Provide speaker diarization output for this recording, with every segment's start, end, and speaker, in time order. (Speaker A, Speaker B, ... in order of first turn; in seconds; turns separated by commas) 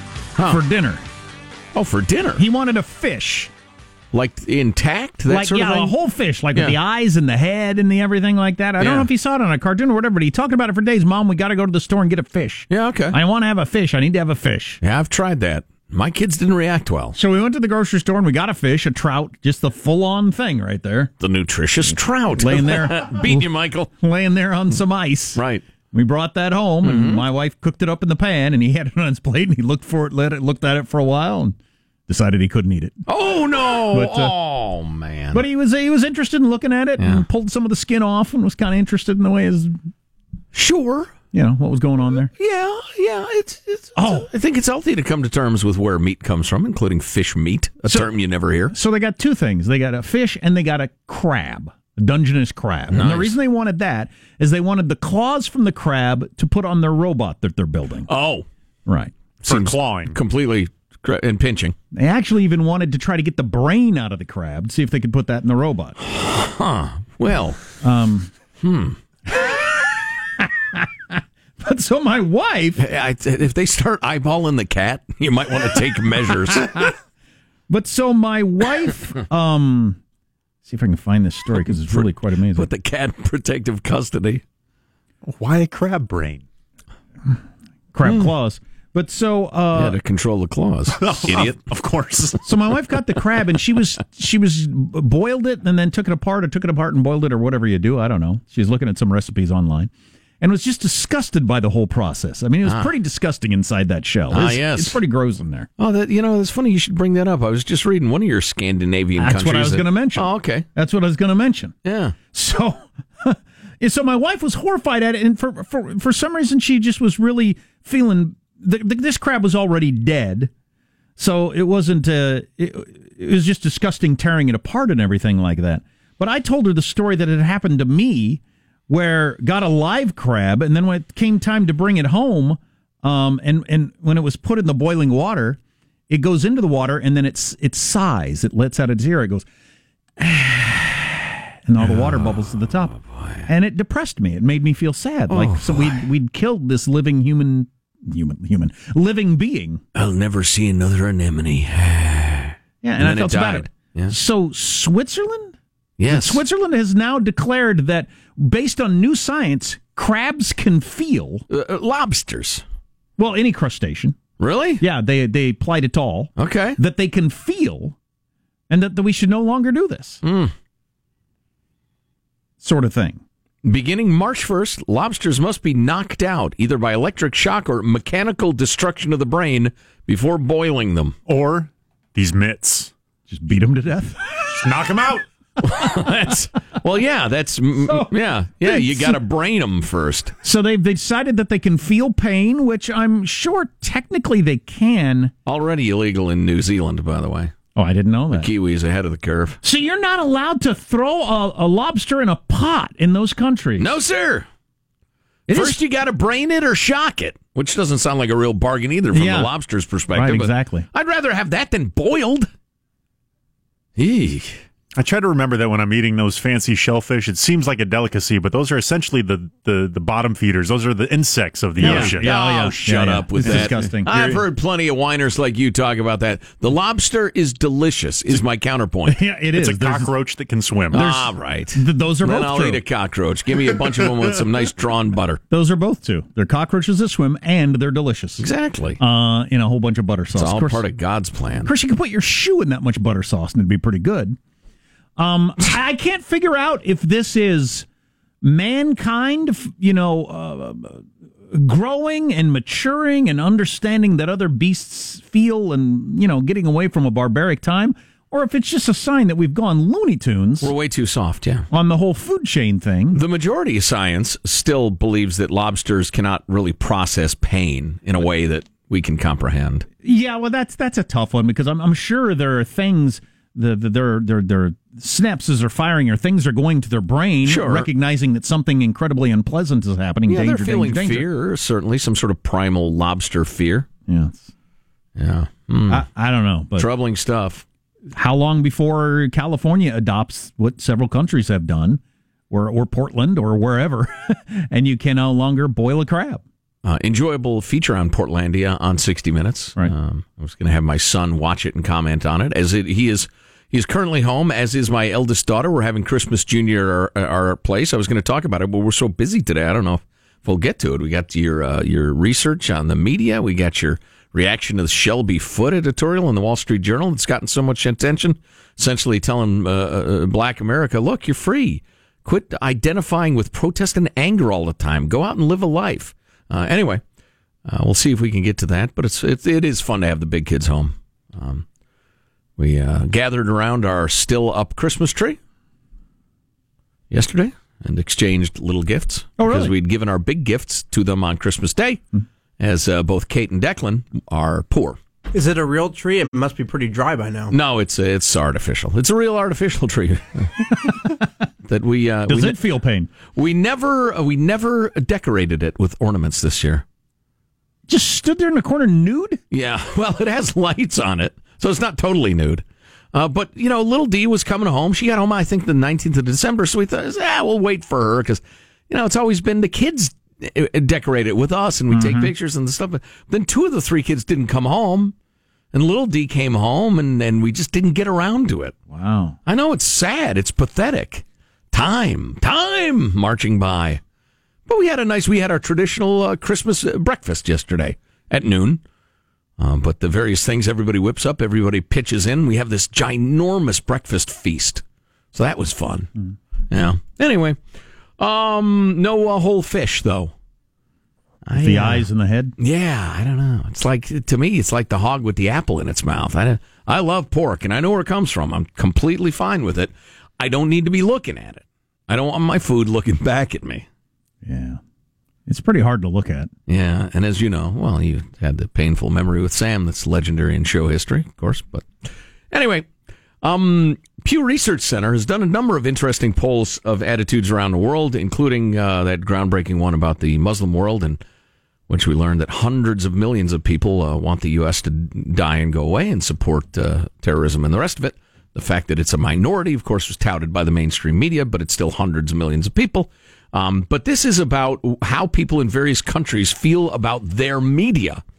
Speaker A: 0.4-1.0, Speaker B: 1.7-2.4, Speaker A: 2.4-3.5, Speaker B: 4.1-5.9, Speaker A: 5.3-14.8, Speaker B: 8.8-9.1, Speaker B: 12.7-13.2, Speaker B: 14.8-17.1, Speaker A: 17.1-21.1, Speaker B: 21.2-23.9, Speaker A: 22.4-23.5, Speaker A: 24.0-25.4, Speaker B: 25.3-25.6, Speaker A: 25.9-31.5, Speaker B: 26.8-27.2, Speaker A: 32.1-33.0, Speaker B: 33.0-35.4, Speaker A: 33.9-34.3, Speaker A: 35.3-39.8, Speaker B: 37.0-37.2, Speaker B: 40.5-41.1, Speaker A: 41.3-42.3, Speaker B: 42.3-48.7, Speaker A: 44.0-44.3, Speaker A: 48.7-58.1, Speaker B: 52.9-53.3, Speaker B: 58.1-58.5, Speaker A: 58.9-59.1, Speaker B: 59.4-61.8, Speaker C: 59.5-60.2, Speaker A: 61.9-66.0, Speaker B: 66.0-67.6, Speaker A: 67.8-68.3, Speaker B: 68.6-69.0, Speaker A: 69.3-70.9, Speaker A: 71.6-72.8, Speaker B: 72.8-76.8, Speaker A: 77.7-80.0, Speaker A: 80.6-82.7, Speaker B: 81.9-84.4, Speaker C: 85.2-86.4, Speaker A: 87.9-90.0, Speaker B: 88.0-88.3, Speaker B: 89.7-91.6, Speaker C: 90.9-92.4, Speaker A: 92.4-105.7, Speaker B: 102.6-102.9, Speaker B: 104.3-105.0, Speaker B: 105.8-110.7, Speaker A: 109.2-111.7, Speaker B: 111.8-112.2, Speaker A: 112.3-120.5, Speaker A: 121.2-139.4, Speaker A: 140.2-149.8, Speaker B: 141.8-143.5, Speaker B: 145.3-146.1, Speaker B: 149.9-154.1, Speaker A: 152.8-155.5, Speaker B: 156.0-156.4, Speaker A: 156.1-161.4, Speaker B: 161.5-162.6, Speaker A: 163.2-164.2, Speaker B: 164.4-164.8, Speaker A: 164.8-167.9, Speaker B: 166.4-166.8, Speaker A: 168.7-170.2, Speaker B: 170.2-170.5, Speaker A: 172.6-173.2, Speaker B: 173.6-181.2, Speaker C: 181.2-182.9, Speaker A: 183.3-184.2, Speaker C: 184.5-185.2, Speaker B: 185.6-190.3, Speaker A: 187.8-189.2, Speaker A: 190.4-195.3, Speaker B: 195.4-197.5, Speaker A: 197.8-198.5, Speaker B: 198.3-199.6, Speaker A: 199.6-203.9, Speaker B: 203.8-204.5, Speaker B: 205.5-212.5, Speaker A: 205.5-205.8, Speaker A: 209.1-209.5, Speaker A: 210.1-210.9, Speaker B: 213.9-214.6, Speaker C: 214.9-222.3, Speaker A: 221.8-224.4, Speaker B: 221.8-229.2, Speaker A: 229.1-230.1, Speaker C: 229.5-231.1, Speaker B: 230.9-235.4, Speaker A: 230.9-232.8, Speaker A: 235.5-238.4, Speaker B: 238.4-239.0, Speaker A: 239.0-240.8, Speaker B: 240.3-241.7, Speaker A: 241.6-244.4, Speaker A: 245.2-247.8, Speaker A: 248.4-260.7, Speaker B: 260.6-261.7, Speaker A: 261.7-263.2, Speaker B: 263.1-269.9, Speaker A: 270.0-281.3, Speaker B: 277.4-277.9, Speaker B: 280.3-283.9, Speaker A: 284.1-284.5, Speaker B: 285.1-286.1, Speaker A: 285.9-286.9, Speaker B: 286.8-287.6, Speaker A: 288.1-296.4, Speaker B: 296.8-327.0, Speaker B: 327.6-331.6, Speaker B: 332.6-335.4, Speaker B: 337.1-342.0, Speaker A: 339.4-339.7, Speaker B: 342.6-345.0, Speaker D: 345.3-347.6, Speaker B: 347.5-350.5, Speaker B: 351.6-352.6, Speaker A: 352.3-353.1, Speaker B: 353.3-356.8, Speaker A: 357.9-359.4, Speaker B: 359.5-375.1, Speaker A: 371.9-372.3, Speaker B: 375.7-378.7, Speaker A: 378.9-379.4, Speaker B: 379.4-384.0, Speaker B: 384.7-388.8, Speaker B: 389.6-396.1, Speaker B: 396.7-397.6, Speaker B: 398.2-400.3, Speaker B: 401.4-402.1, Speaker A: 401.6-402.5, Speaker B: 402.6-413.9, Speaker A: 414.4-414.8, Speaker A: 415.5-416.5, Speaker B: 416.7-421.9, Speaker B: 422.5-422.9, Speaker B: 423.4-431.2, Speaker B: 431.9-448.2